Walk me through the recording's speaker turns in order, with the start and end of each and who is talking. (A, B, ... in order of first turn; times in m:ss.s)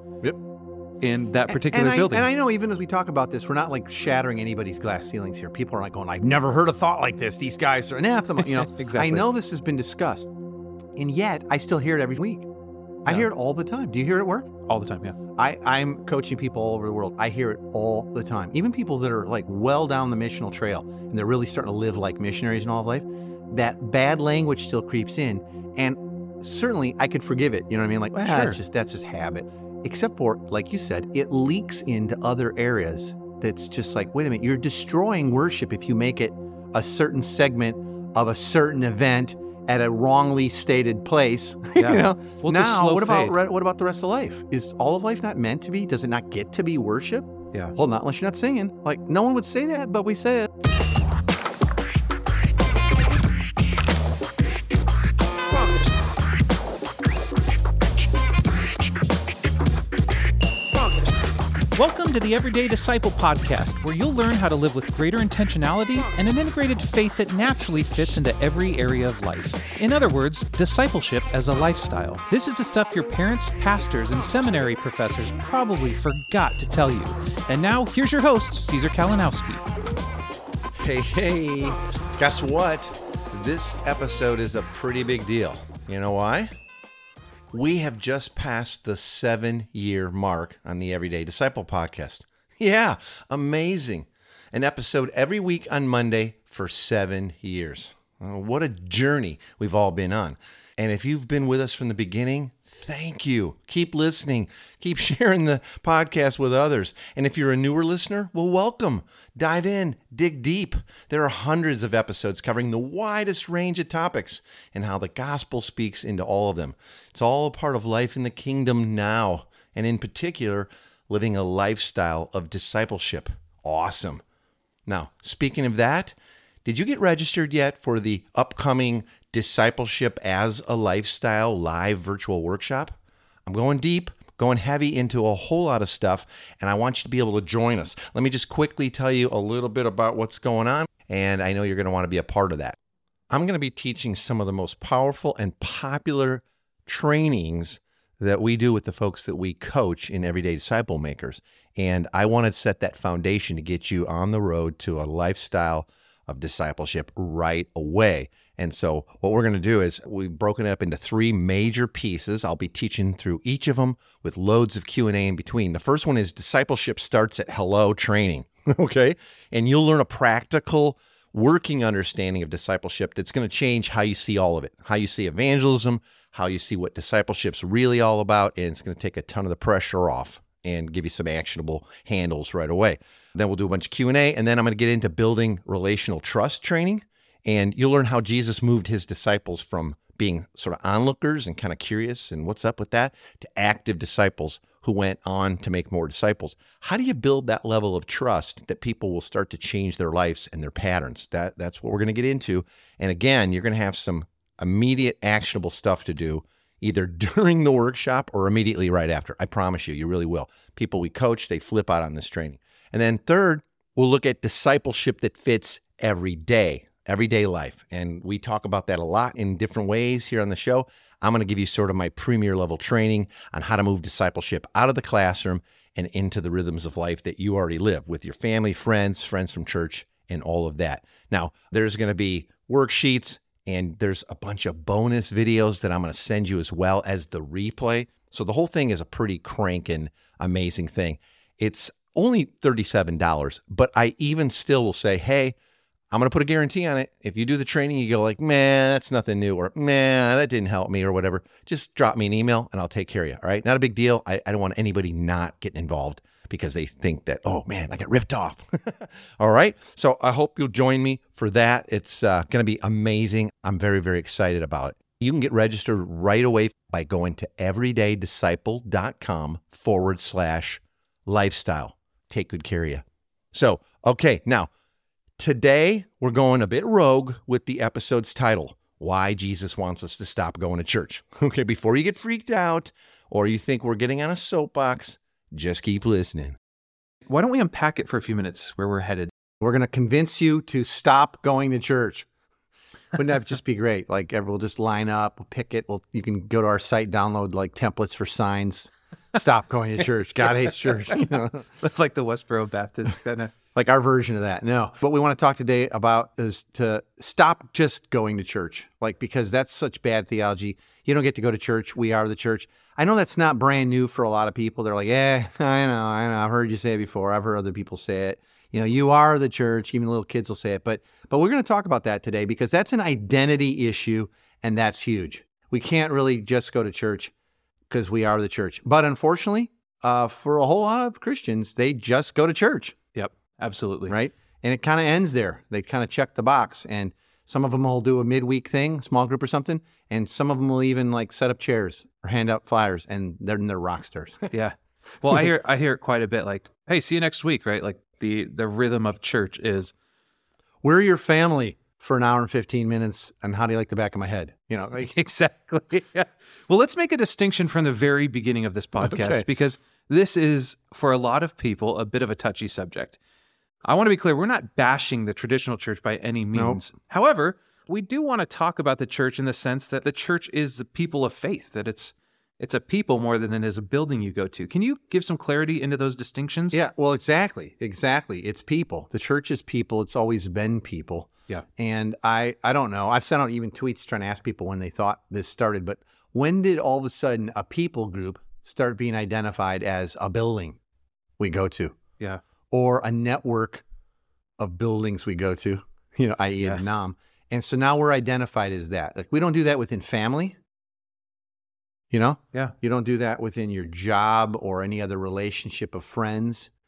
0:01.0-0:02.3 A
0:01.5-0:10.3 B
0:08.4-0:09.3 A
0:11.0-0:12.5 B
0:13.0-0:14.5 B
0:14.6-0:15.2 A
0:15.4-0:50.5 B
0:28.2-0:28.6 A
0:41.8-0:43.4 A
1:01.8-1:19.6 A
1:20.8-1:26.5 C
1:27.5-2:04.2 C
2:04.9-2:22.8 C
2:23.3-4:05.6 C
4:06.1-4:34.7 C
4:35.4-4:46.6 C
4:47.3-4:49.3 A
4:49.6-4:52.3 B
4:53.2-5:01.7 B
5:01.8-5:03.5 A
5:03.8-5:27.3 B
5:27.9-5:33.0 B
5:33.2-5:34.2 A
5:34.1-5:44.5 B
5:44.5-5:49.9 A
5:50.8-5:55.2 B
5:55.1-6:03.2 A
5:59.0-5:59.4 B
6:03.8-6:16.8 A
6:06.5-6:06.8 B
6:16.7-6:30.8 B
6:31.4-6:32.0 B
6:32.7-6:33.8 B
6:34.6-6:40.6 B
6:42.1-6:46.7 B